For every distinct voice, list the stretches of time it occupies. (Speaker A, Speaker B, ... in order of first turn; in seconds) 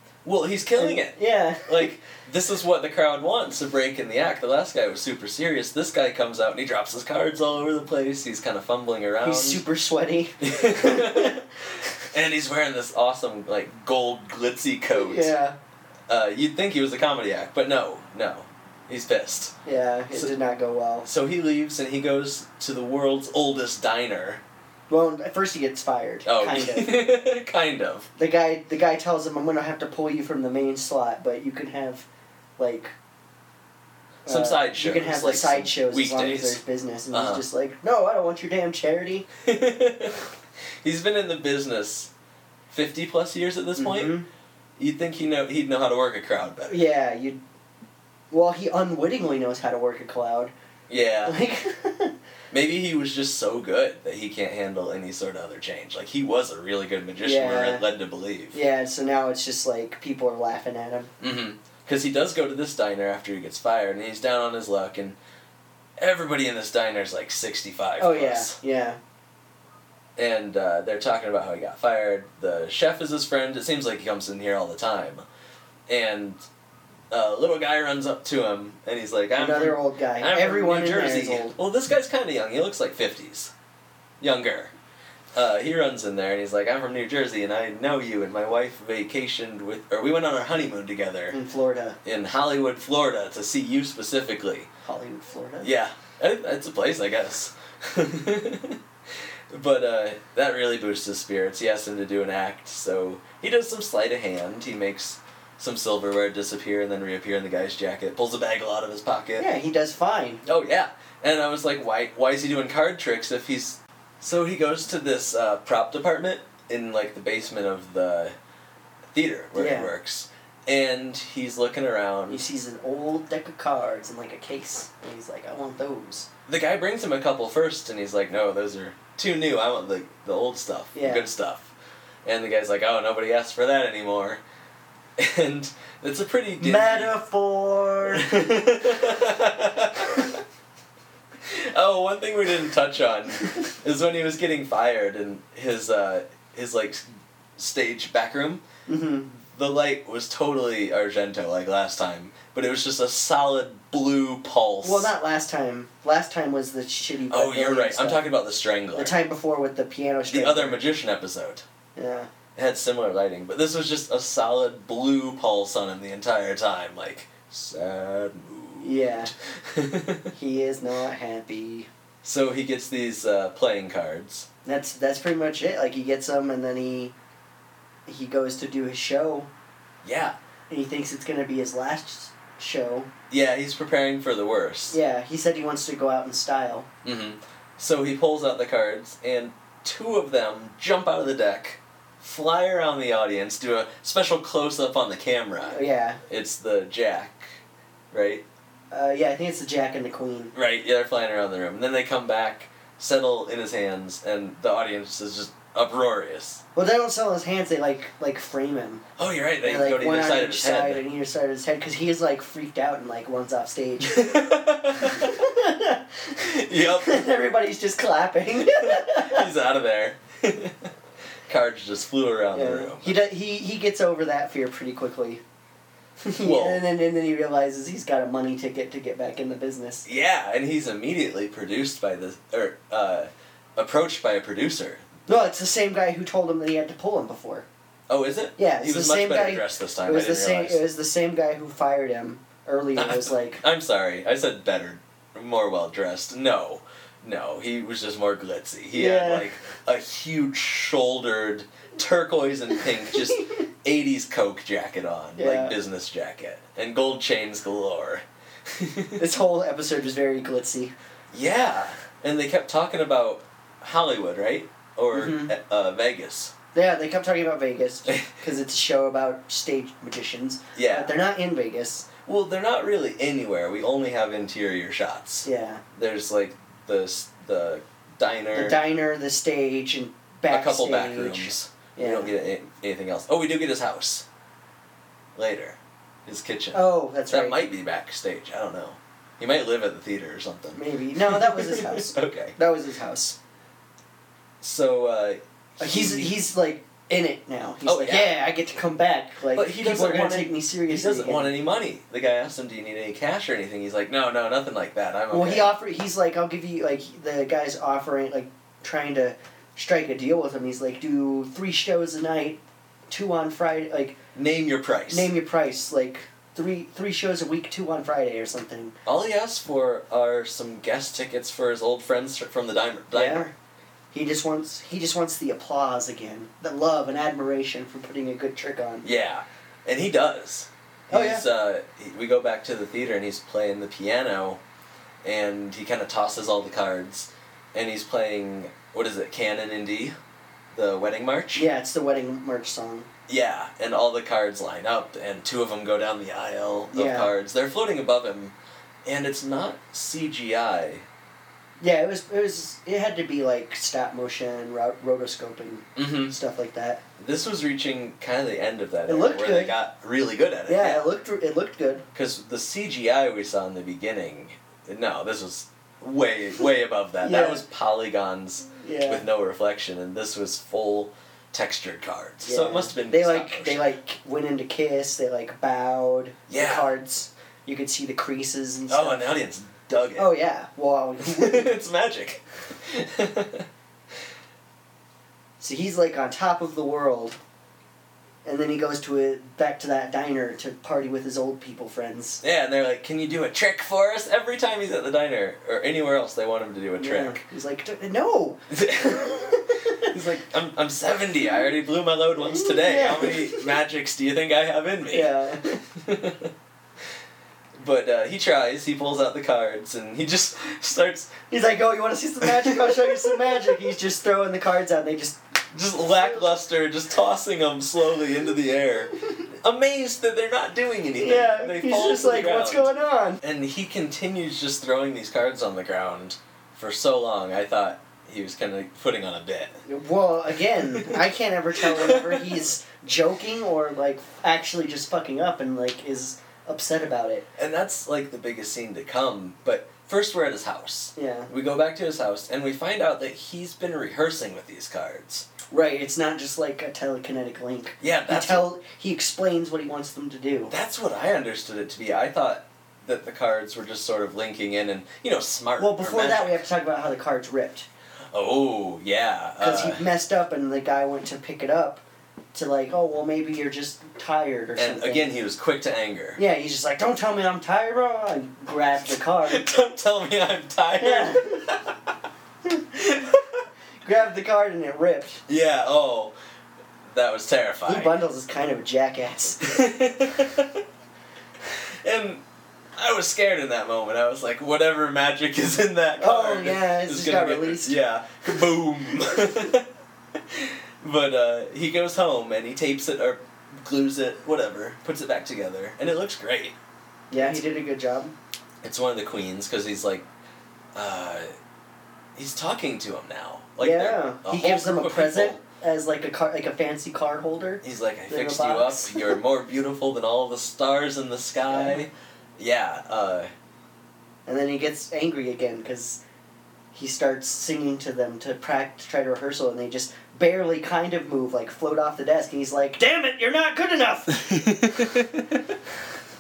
Speaker A: 0.2-9.6, 10.4-11.4, 12.0-15.3, 16.1-19.6, 21.0-24.4, 26.2-28.1, 34.3-36.6, 37.1-37.5, 39.5-40.3, 40.8-42.1, 42.7-44.2, 44.8-46.9, 50.9-51.4, 52.5-58.6, 61.2-65.2, 66.0-68.6, 70.2-75.2, 75.9-76.4, 77.1-83.5, 84.2-84.7, 85.3-91.4, 92.0-94.7, 95.6-98.8, 99.5-109.5, 110.5-118.3, 119.1-122.4, 126.5-131.7, 132.2-134.4, 135.2-137.1, 138.1-140.4, 141.4-147.0, 147.6-148.6, 149.5-155.1, 157.3-159.2, 160.3-161.7, 162.6-170.3, 172.2-174.5, 180.0-180.4, 183.3-185.0, 187.0-197.6, 198.1-198.4, 200.5-206.6, 209.2-211.1, 214.1-215.5, 216.4-217.3, 218.6-220.9, 221.5-223.2, 226.4-226.8, 230.1-235.1, 238.1-240.8, 243.0-259.2, 261.3-266.5, 270.8-271.2, 272.3-278.8, 280.5-284.2, 285.4-292.6, 294.6-296.4, 297.8-298.4, 299.5-305.8, 314.4-315.3, 319.1-323.5, 329.0-334.6, 335.2-340.1, 340.7-341.7, 343.3-348.5, 349.1-351.1, 356.0-356.4, 357.2-361.1, 362.1-373.9, 376.5-376.9, 378.9-380.4, 381.2-383.7, 392.4-397.4, 398.7-406.5, 407.8-411.5, 412.4-413.8, 415.7-422.9, 423.4-429.8, 430.8-431.2, 431.8-432.7, 437.6-445.5, 448.0-448.7, 450.7-456.6, 458.3-460.1, 464.8-466.4, 469.4-471.9, 473.0-473.4, 475.5-476.3, 477.1-478.1, 479.6-480.8, 482.0-482.4, 483.0-489.9, 490.5-496.8, 497.3-497.6, 498.8-500.3, 500.9-501.5, 502.4-505.6, 507.8-513.5, 524.5-525.6
Speaker B: 0.8-1.9, 9.2-11.4, 14.9-15.6, 19.6-21.1, 24.9-26.9, 28.2-32.1, 32.6-32.9, 34.3-39.3, 43.8-44.3, 46.7-47.4, 48.3-50.5, 51.3-52.1, 57.2-57.9, 58.5-61.1, 68.0-69.0, 79.4-81.5, 91.3-92.0, 94.8-95.7, 109.4-110.5, 119.5-119.9, 122.3-126.3, 130.9-131.3, 136.6-138.7, 148.9-149.3, 154.8-158.2, 158.9-160.8, 162.0-162.3, 168.8-169.3, 170.3-171.9, 174.7-177.2, 178.1-179.5, 180.7-183.1, 184.9-186.9, 195.6-196.2, 198.9-200.5, 206.8-209.1, 209.6-214.4, 215.0-216.4, 217.0-219.5, 222.5-225.4, 226.2-230.1, 235.3-237.7, 238.6-243.6, 248.9-249.5, 253.1-253.4, 255.4-255.8, 259.2-260.9, 265.1-265.5, 266.7-272.1, 275.4-275.8, 278.5-282.3, 286.7-287.6, 290.8-293.4, 295.8-301.5, 305.3-314.2, 315.1-319.0, 323.1-323.5, 324.1-329.1, 331.1-331.4, 341.6-343.1, 346.9-347.3, 351.8-357.0, 359.1-359.8, 360.7-362.1, 367.2-367.6, 368.8-369.2, 372.4-379.3, 380.2-381.7, 385.6-387.4, 388.4-392.4, 397.0-400.0, 402.4-403.8, 405.1-405.8, 411.5-415.4, 421.2-423.4, 429.9-437.5, 441.2-441.5, 445.7-450.7, 455.8-457.9, 459.6-465.3, 466.4-469.7, 471.0-471.6, 474.0-475.4, 477.9-479.8, 486.2-488.0, 497.3-498.3, 503.8-509.4, 511.6-512.0, 514.5-516.2, 516.9-524.7